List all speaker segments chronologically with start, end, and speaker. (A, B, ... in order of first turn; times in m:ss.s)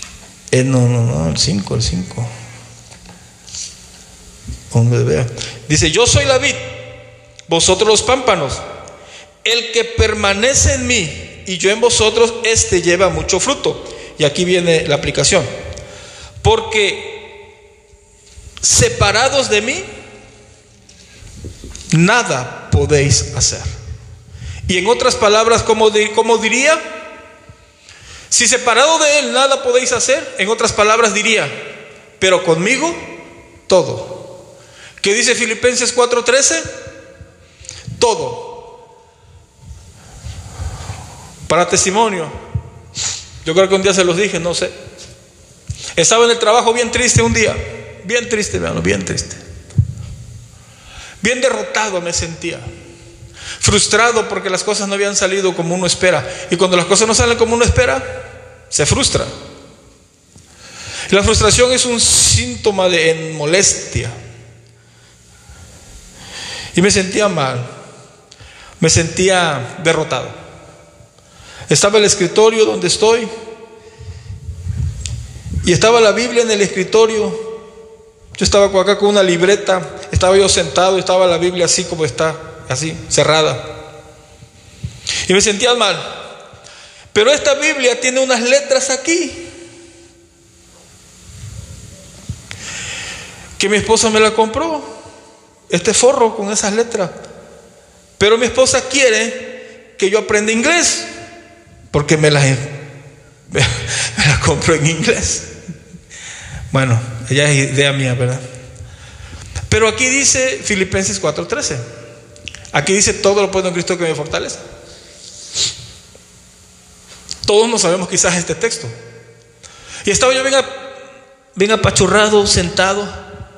0:00.5-0:02.3 A
0:04.7-0:06.6 A
0:07.5-0:08.6 A
0:09.4-0:15.5 A
0:16.4-0:17.3 A
0:18.6-0:19.9 A
0:21.9-0:23.7 A
0:24.7-0:26.8 A
0:28.3-0:31.6 A
0:32.2-0:33.1 A
0:33.7-0:34.3 A
0:35.0-0:36.7 A
0:38.0-0:38.7 A
0:41.5-0:42.4 A
0:43.4-0:44.7 A
0:46.0-0:49.4 A
0:51.2-0:52.7 A
0:53.6-0:59.3 A
1:01.1-1:04.1 A
1:06.7-1:07.7 A
1:08.8-1:10.4 A
1:11.7-1:13.3 A
1:15.6-1:17.5 A
1:18.4-1:23.7 A
1:25.2-1:26.2 A
1:27.1-1:29.5 A
1:33.6-1:34.9 A
1:35.7-1:37.1 A
1:38.2-1:41.1 A
1:41.9-1:42.8 A
1:43.5-1:45.5 A
1:46.7-1:48.4 A
1:49.7-1:51.8 A
1:52.7-1:54.6 A
1:57.4-1:58.9 A
2:00.0-2:00.9 A
2:01.5-2:03.1 A